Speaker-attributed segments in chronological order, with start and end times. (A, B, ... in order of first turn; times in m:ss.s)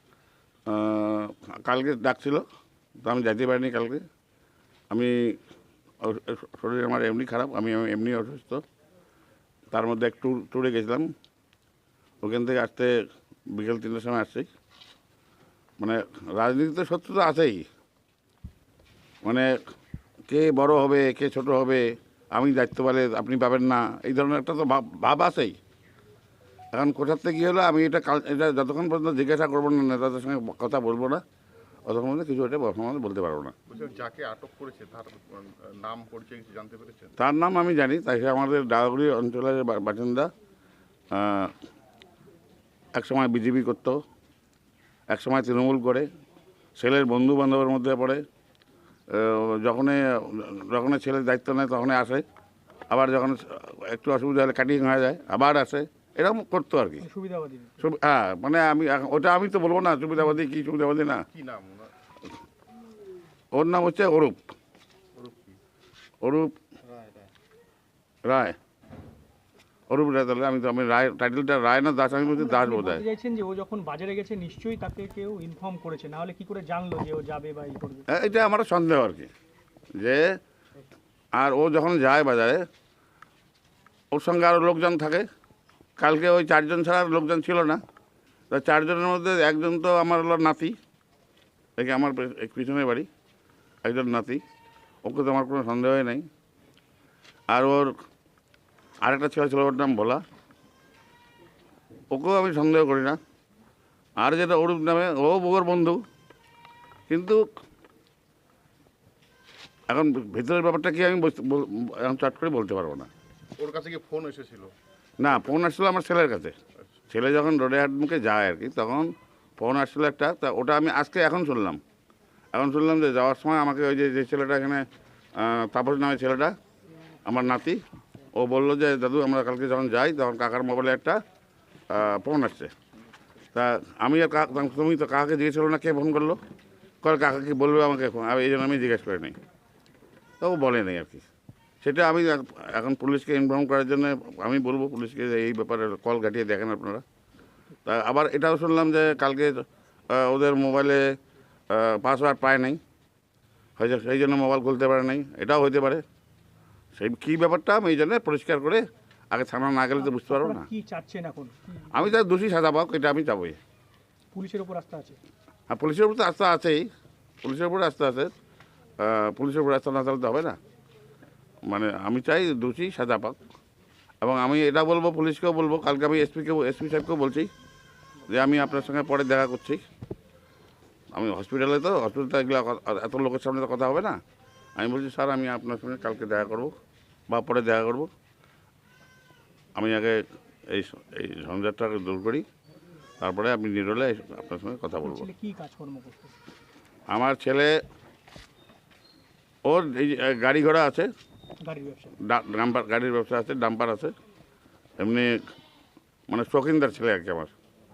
0:00.7-0:02.4 A
0:03.0-0:04.0 A
0:04.9-0:05.4 A
0:06.0-0:08.6 A
0:09.7-0:11.1 A
0:12.2-0:13.0 A
0:13.5-0:14.5 A
0:15.8-0:17.6 A
0:19.2-0:19.5 A
0:20.3-0:25.6 A
0:26.7-0:31.2 A
0:31.9-0:33.5 A
0:33.7-0:37.1 B
0:37.2-0:40.3 A
0:41.1-0:41.5 A
0:42.9-0:44.0 A
0:45.1-0:46.1 A
0:46.8-0:48.2 A
0:49.1-0:52.2 A
0:52.9-0:57.0 A
0:57.0-0:57.8 C
0:57.8-1:01.2 A
1:01.3-1:01.9 B
1:03.5-1:04.4 A
1:05.2-1:05.6 B
1:06.2-1:06.5 A
1:07.0-1:07.2 B
1:08.2-1:08.6 A
1:09.9-1:13.0 A
1:12.3-1:18.0 C
1:18.1-1:19.3 A
1:20.0-1:20.2 A
1:21.3-1:22.6 A
1:24.1-1:25.3 A
1:26.0-1:27.8 A
1:28.5-1:30.8 A
1:31.8-1:33.1 A
1:33.8-1:34.4 A
1:35.0-1:36.3 A
1:37.5-1:37.9 A
1:39.0-1:40.2 A
1:42.1-1:43.2 A
1:44.2-1:46.0 A
1:47.1-1:47.4 A
1:49.9-1:53.1 A
1:53.6-1:54.7 B
1:55.2-1:56.6 A
1:57.1-2:01.8 A
2:02.5-2:04.8 A
2:05.4-2:06.6 A
2:07.3-2:07.8 A
2:08.3-2:11.2 A
2:11.9-2:12.7 A
2:13.5-2:16.4 A
2:17.0-2:19.4 A
2:20.4-2:21.3 A
2:21.8-2:27.0 A
2:27.9-2:31.0 A
2:31.7-2:32.8 A
2:33.8-2:36.0 A
2:37.0-2:40.7 A
2:40.0-2:42.2 C
2:41.9-2:43.6 A
2:44.3-2:45.2 C
2:45.7-2:46.9 A
2:47.4-2:48.3 A
2:49.0-2:50.6 A
2:51.7-2:53.4 A
2:54.2-2:57.5 A
2:58.3-2:59.8 A
3:01.1-3:04.2 A
3:04.8-3:06.8 A
3:07.3-3:08.1 A
3:09.8-3:12.5 A
3:13.2-3:15.3 A
3:15.0-3:16.4 C
3:17.1-3:17.8 A
3:19.6-3:21.1 A
3:21.6-3:22.2 C
3:22.2-3:24.1 A
3:25.0-3:25.3 A
3:26.3-3:27.5 A